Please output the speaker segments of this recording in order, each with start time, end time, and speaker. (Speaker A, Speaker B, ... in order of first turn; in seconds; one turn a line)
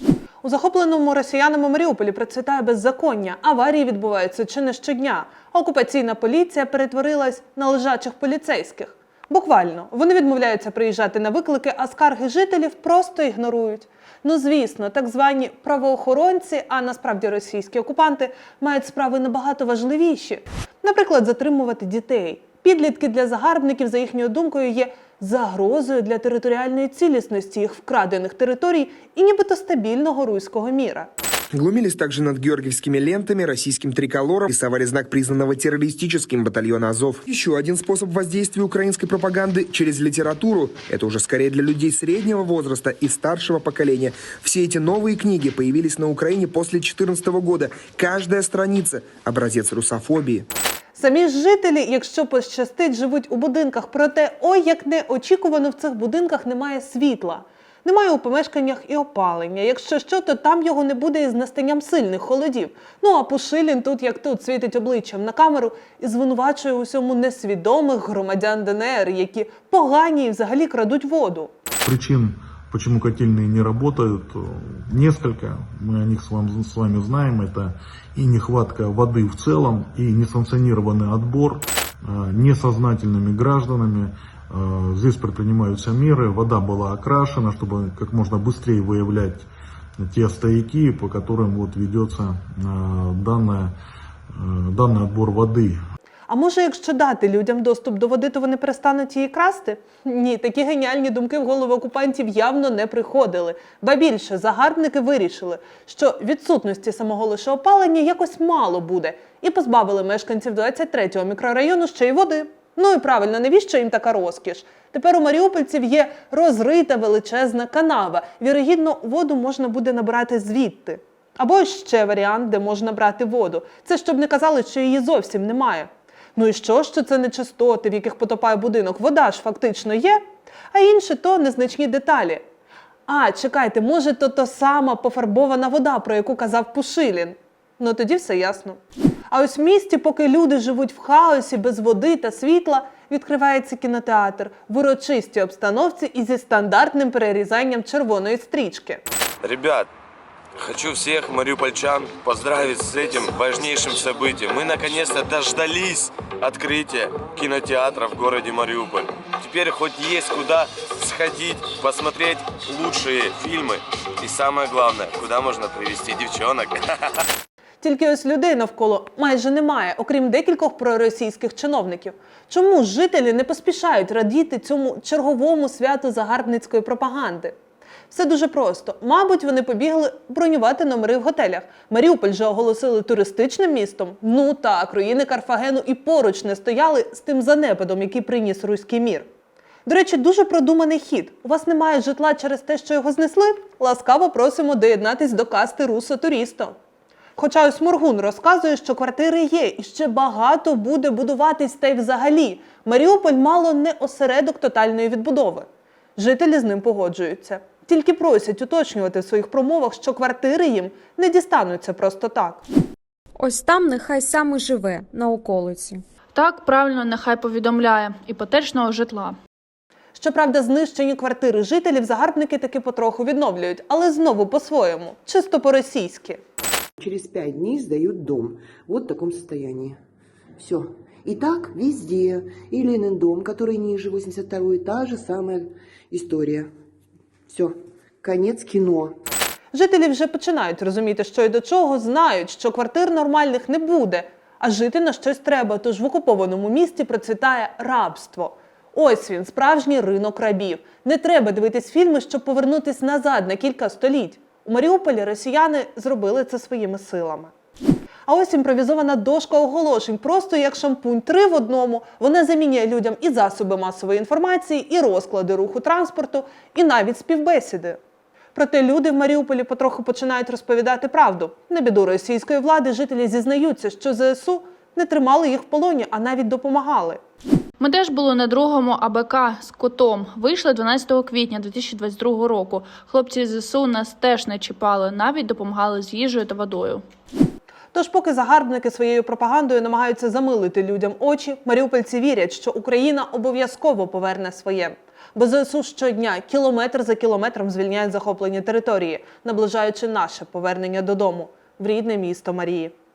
Speaker A: 0.4-31.1
Speaker B: 31.5-50.4
Speaker A: 51.0-71.5
Speaker C: 71.8-89.5
Speaker C: 90.0-93.7
Speaker C: 94.3-95.8
Speaker A: 96.3-132.4
Speaker A: 133.1-138.8
Speaker A: 139.3-149.0
Speaker D: 149.4-149.9
Speaker D: 150.6-167.2
Speaker A: 167.8-177.5
Speaker A: 178.1-189.3
Speaker A: 189.8-196.7
Speaker A: 197.3-212.6
Speaker E: 213.3-216.0
Speaker F: 216.3-219.3
Speaker A: 220.1-226.4
Speaker G: 227.0-230.0
Speaker G: 230.6-236.7
Speaker G: 237.5-239.2
Speaker A: 239.7-257.5
Speaker A: 258.3-268.0
Speaker A: 268.5-277.2
Speaker F: 277.8-287.0
Speaker A: 287.9-302.9